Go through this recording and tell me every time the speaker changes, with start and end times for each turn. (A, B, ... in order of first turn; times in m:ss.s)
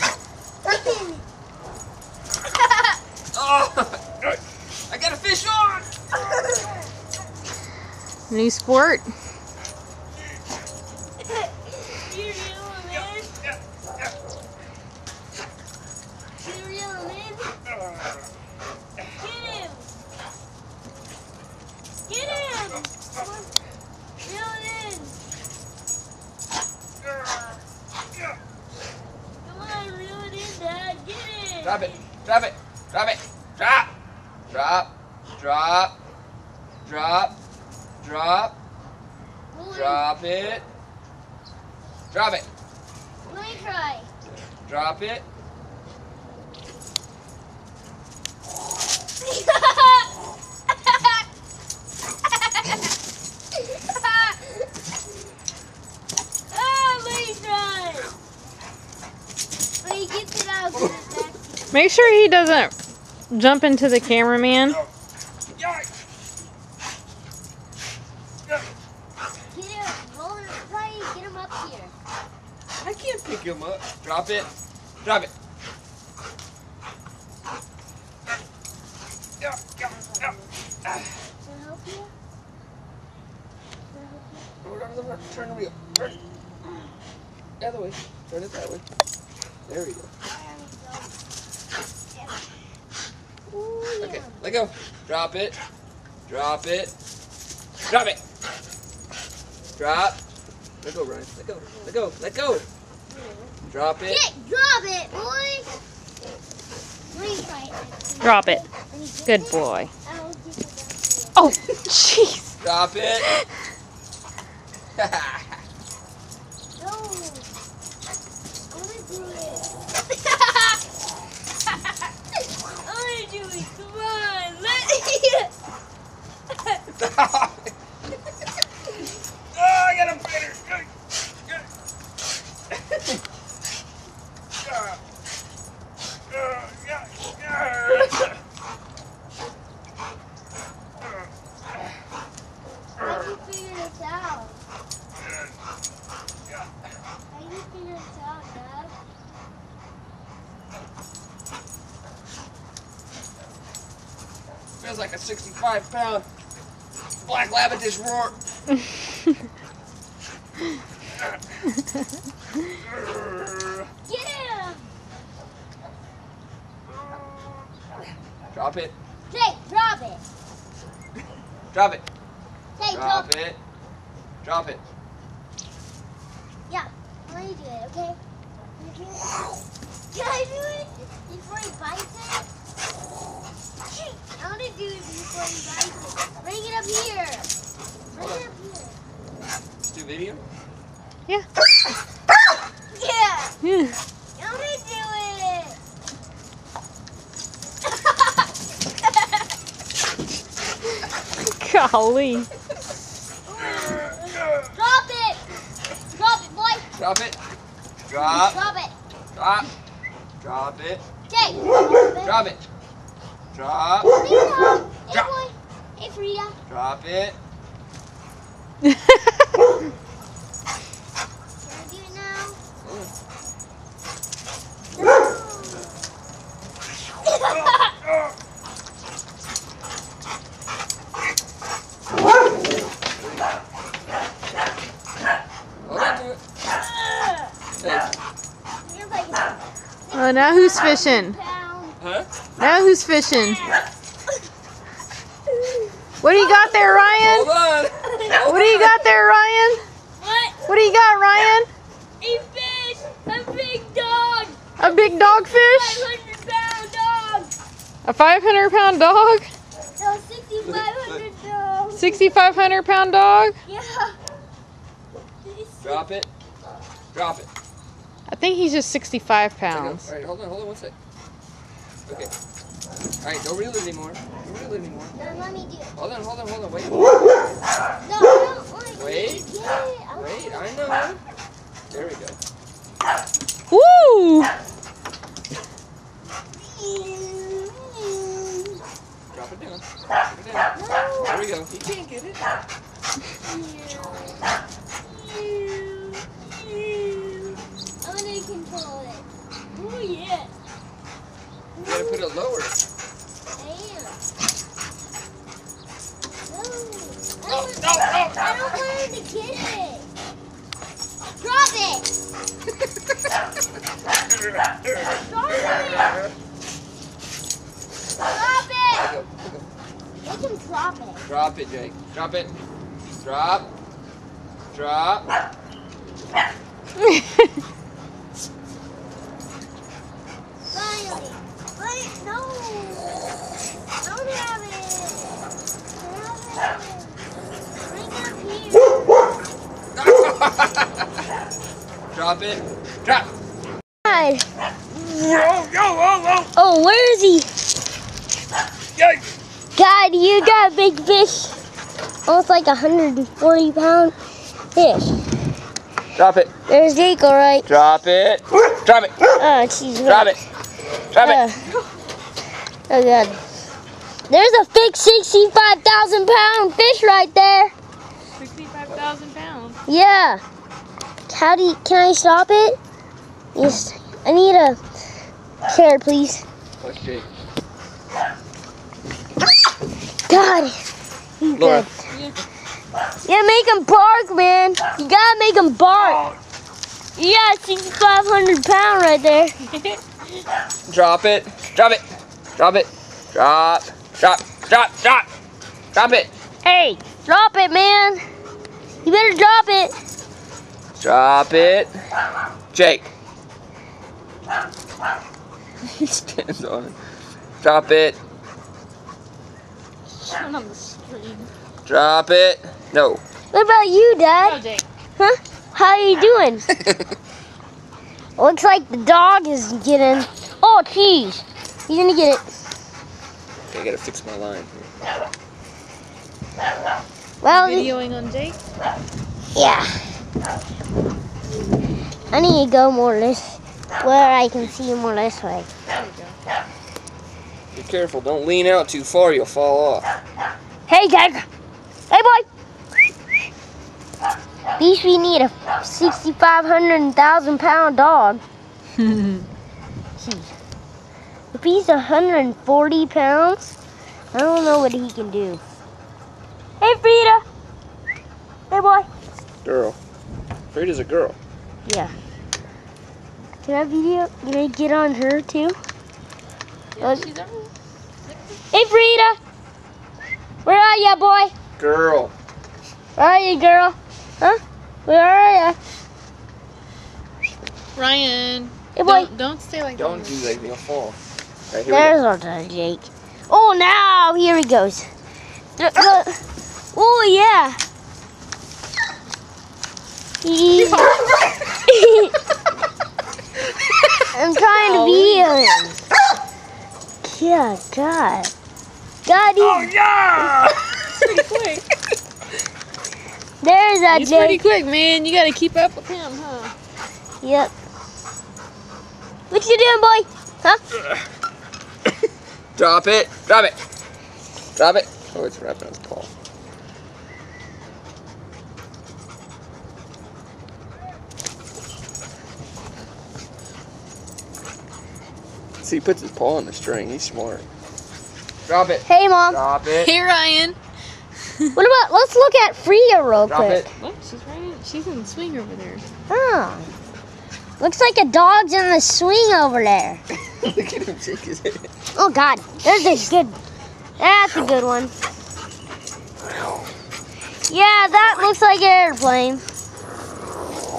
0:00.6-0:01.2 A
0:03.3-0:05.9 B
0:08.3-0:09.1 C
0:11.2-0:13.3 A
0:16.4-0:17.6 A
0:19.1-0:19.9 A
0:22.1-0:23.5 A
0:24.2-0:25.2 A
0:29.4-0:32.0 A
0:31.6-0:33.9 B
0:34.5-0:36.0 B
0:36.8-0:37.4 B
0:38.0-0:38.6 B
0:39.5-0:40.1 A
0:39.7-0:40.6 B
0:42.1-0:42.5 B
0:43.3-0:44.1 A
0:44.6-0:45.2 B
0:49.2-0:50.1 A
0:53.9-0:54.4 A
0:56.5-0:58.1 A
0:59.8-1:01.7 A
1:01.7-1:02.8 C
1:03.3-1:04.8 C
1:09.5-1:11.9 A
1:12.8-1:14.5 B
1:15.0-1:15.3 B
1:19.4-1:19.7 B
1:19.8-1:20.5 A
1:21.4-1:22.1 A
1:23.9-1:24.5 A
1:24.6-1:26.2 B
1:27.6-1:28.8 B
1:29.7-1:30.1 B
1:30.3-1:31.1 A
1:32.2-1:32.5 A
1:33.5-1:34.4 A
1:34.0-1:35.6 B
1:36.3-1:36.9 B
1:37.9-1:38.2 B
1:39.8-1:40.2 B
1:40.8-1:42.6 B
1:43.1-1:43.5 A
1:43.7-1:44.2 B
1:44.1-1:45.7 A
1:47.1-1:51.4 A
1:48.2-1:48.6 C
1:49.3-1:49.9 C
1:51.4-1:52.6 C
1:52.6-1:53.3 B
1:55.0-1:55.4 B
1:56.8-1:57.5 A
1:58.7-1:59.7 A
2:02.8-2:05.5 A
2:06.9-2:07.7 B
2:09.5-2:10.9 B
2:17.0-2:18.2 B
2:23.0-2:24.6 A
2:27.3-2:28.9 A
2:34.8-2:36.3 B
2:37.2-2:38.4 B
2:43.0-2:43.3 B
2:44.1-2:44.8 A
2:48.5-2:48.9 B
2:49.3-2:50.2 A
2:51.7-2:52.0 B
2:52.8-2:53.3 A
2:52.9-2:53.6 B
2:54.4-2:54.8 B
2:56.7-2:58.2 A
2:58.8-2:59.5 A
3:00.1-3:02.5 A
3:03.9-3:07.5 A
3:08.1-3:09.0 A
3:08.1-3:08.5 B
3:09.9-3:10.4 B
3:12.9-3:13.6 A
3:13.6-3:14.0 C
3:14.4-3:15.8 A
3:21.4-3:22.5 C
3:23.5-3:25.4 A
3:26.1-3:26.8 A
3:27.0-3:27.4 B
3:28.1-3:28.6 B
3:28.2-3:29.0 A
3:29.3-3:29.7 B
3:30.4-3:31.0 B
3:31.3-3:32.5 A
3:32.2-3:32.6 B
3:33.5-3:34.2 B
3:34.2-3:36.6 A
3:36.7-3:37.4 B
3:41.6-3:42.6 A
3:42.8-3:43.1 B
3:45.0-3:46.0 A
3:47.4-3:47.8 A
3:55.9-3:56.4 B
3:56.7-3:57.5 A
3:57.8-3:58.1 B
3:58.8-4:02.0 A
4:00.1-4:01.4 C
4:02.0-4:02.3 B
4:02.6-4:03.6 C
4:03.3-4:03.8 A
4:06.2-4:07.5 C
4:06.3-4:07.2 A
4:07.2-4:09.0 B
4:08.0-4:08.4 A
4:08.4-4:09.8 C
4:10.2-4:10.6 A
4:10.7-4:11.7 C
4:12.2-4:17.5 A
4:14.8-4:16.1 C
4:18.0-4:19.5 C
4:20.0-4:22.5 A
4:20.6-4:21.2 B
4:22.0-4:23.6 C
4:23.6-4:24.2 A
4:25.4-4:26.1 A
4:25.8-4:26.3 B
4:27.1-4:27.5 B
4:28.3-4:30.1 C
4:29.7-4:31.0 B
4:33.2-4:35.4 B
4:35.2-4:35.9 A
4:36.0-4:37.2 B
4:38.0-4:40.9 A
4:39.0-4:39.5 B
4:40.2-4:41.2 B
4:41.9-4:42.4 B
4:43.7-4:44.5 C
4:46.6-4:48.8 A
4:49.3-4:50.7 B
4:50.7-4:51.4 A
4:51.2-4:52.4 B
4:53.4-4:54.4 A
4:55.0-5:00.5 A
5:01.7-5:02.3 A
5:01.8-5:02.8 B
5:03.5-5:04.2 A
5:06.5-5:10.1 A
5:07.5-5:08.7 B
5:11.4-5:12.1 A
5:15.1-5:16.2 A
5:18.2-5:19.1 A
5:19.0-5:19.7 B
5:20.2-5:21.3 A
5:21.2-5:22.6 B
5:23.2-5:23.7 B
5:24.7-5:25.3 B
5:30.7-5:33.2 A
5:34.0-5:37.2 A
5:37.8-5:39.1 A
5:40.0-5:41.1 B
5:42.1-5:43.3 B
5:44.1-5:44.5 A
5:44.9-5:46.5 B
5:46.6-5:47.5 A
5:49.8-5:51.6 A
5:52.3-5:54.2 A
5:54.8-5:55.2 A
5:56.2-5:56.5 B
5:56.7-5:57.7 A
5:57.7-5:59.3 B
5:59.4-6:00.4 A
6:00.0-6:00.4 B
6:01.1-6:01.4 B
6:01.2-6:01.6 A
6:02.9-6:03.4 A
6:04.3-6:07.7 A
6:08.4-6:09.8 C
6:09.9-6:10.4 A
6:11.3-6:12.8 A
6:13.6-6:14.8 A
6:15.7-6:16.4 A
6:16.8-6:17.3 B
6:20.3-6:20.8 A
6:21.4-6:21.9 A
6:21.6-6:21.9 B
6:23.2-6:26.2 A
6:26.0-6:26.4 B
6:27.2-6:29.5 A
6:30.9-6:32.0 B
6:32.6-6:35.3 B
6:35.9-6:36.3 B
6:36.6-6:38.2 A
6:39.0-6:40.0 A
6:41.0-6:41.9 B
6:42.7-6:43.1 B
6:45.9-6:47.0 B
6:47.6-6:48.2 B
6:50.1-6:51.5 C
6:51.9-6:53.2 B
6:53.5-6:54.6 A
6:54.4-6:54.8 C
6:55.2-6:56.7 A
6:56.8-6:57.0 B
6:58.4-7:02.4 A
7:03.7-7:04.9 B
7:07.4-7:07.9 A
7:07.5-7:08.6 C
7:09.5-7:10.0 A
7:12.3-7:15.7 A
7:15.9-7:16.4 C
7:17.7-7:20.1 B
7:20.9-7:21.5 A
7:22.1-7:22.5 A
7:24.8-7:28.4 A
7:29.0-7:29.4 C
7:30.2-7:30.5 A
7:31.5-7:33.8 A
7:34.3-7:35.6 A
7:36.8-7:37.4 A
7:38.7-7:39.1 A
7:39.6-7:40.0 B
7:40.7-7:41.4 B
7:41.9-7:42.1 A
7:43.6-7:45.8 A
7:46.9-7:47.7 C
7:47.0-7:47.3 A
7:48.7-7:49.4 A
7:50.6-7:51.5 A
7:51.8-7:52.3 B
7:53.2-7:55.8 A
7:58.0-8:00.4 C
7:59.0-7:59.3 A
8:00.0-8:01.2 B
8:01.7-8:02.2 B
8:01.9-8:05.1 A
8:05.8-8:06.4 A
8:06.9-8:07.8 A
8:10.4-8:11.2 A
8:10.8-8:11.4 C
8:11.8-8:12.3 A
8:14.3-8:16.0 A
8:14.7-8:15.6 C
8:17.2-8:18.5 A
8:19.3-8:19.9 A
8:19.7-8:20.9 B
8:20.0-8:21.8 C
8:23.6-8:24.7 A
8:24.1-8:26.7 C
8:27.4-8:27.7 A
8:29.5-8:30.8 A
8:32.8-8:33.8 B
8:34.8-8:36.3 B
8:45.8-8:47.7 B
8:48.7-8:50.1 B
8:49.1-8:49.6 A
8:49.9-8:50.8 C
8:51.8-8:53.9 A
8:53.5-8:53.9 B
8:54.0-8:56.0 C
8:56.3-8:56.9 A
8:57.8-9:00.2 A
9:00.5-9:01.9 B
9:02.2-9:03.6 A
9:04.2-9:05.1 A
9:07.7-9:09.6 A